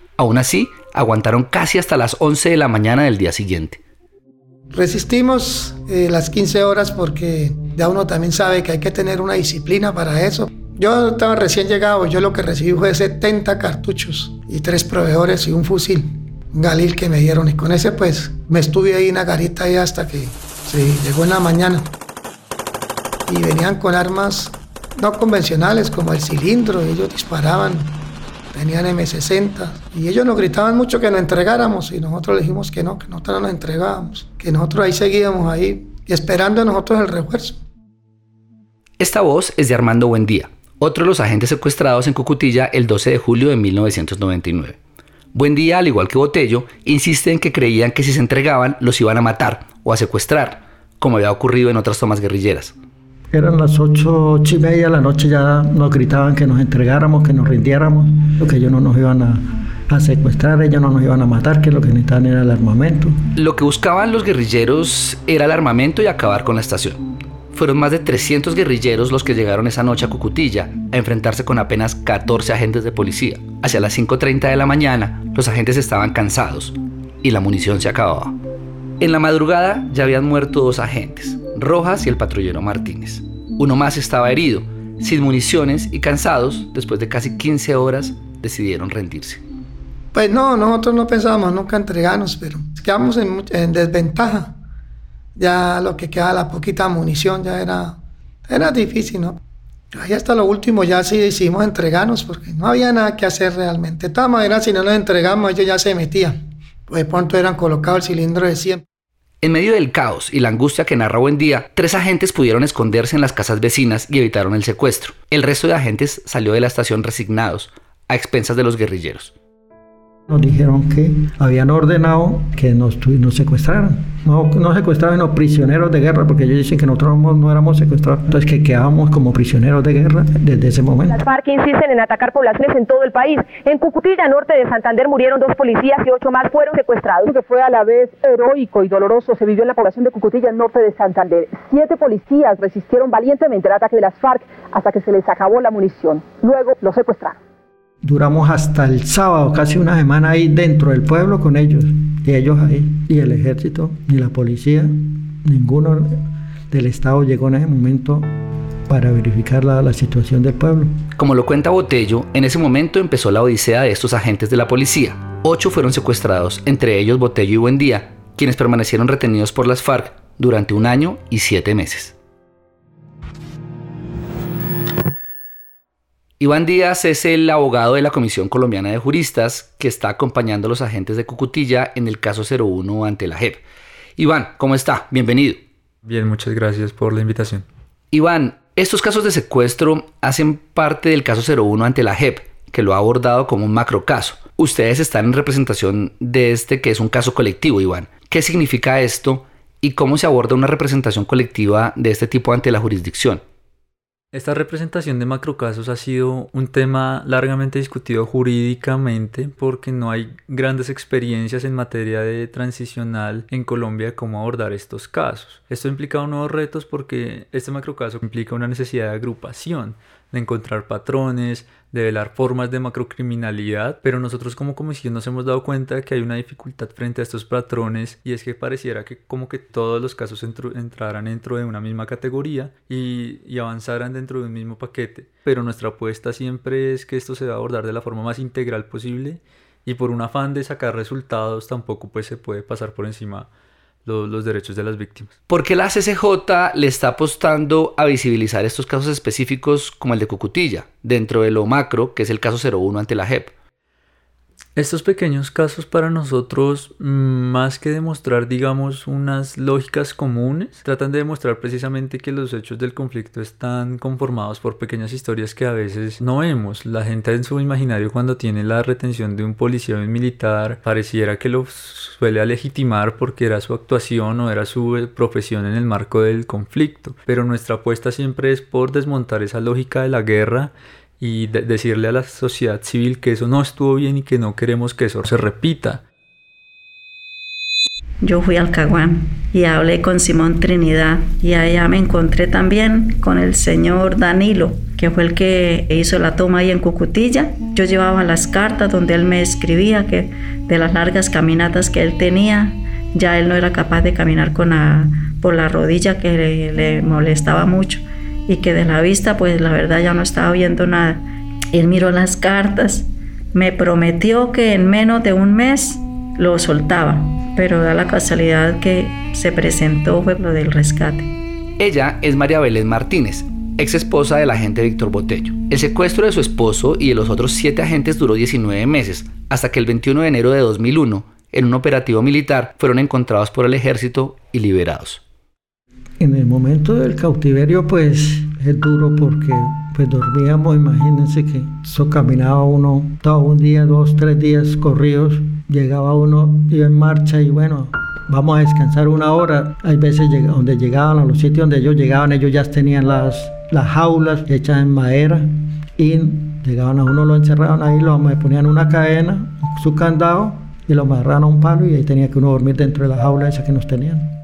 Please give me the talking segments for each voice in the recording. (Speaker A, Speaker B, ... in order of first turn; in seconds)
Speaker A: 0.2-3.8, 39.0-44.8, 45.3-52.7, 63.3-67.0, 67.5-78.3, 79.0-89.4, 109.4-119.3, 161.2-172.1, 176.4-183.6, 184.2-185.6, 188.1-203.4, 245.5-253.5, 321.8-335.2
Speaker B: 4.7-21.9, 23.3-28.0, 28.5-37.6, 90.1-94.6, 95.4-99.4, 99.9-106.4, 106.9-108.8
Speaker C: 53.3-63.1, 120.3-131.2, 148.0-158.3, 158.9-161.0, 336.2-364.3
Speaker D: 131.1-137.2
Speaker E: 137.2-147.4
Speaker F: 186.1-187.7, 204.3-243.5, 244.1-245.3, 254.8-286.0
Speaker G: 288.2-321.3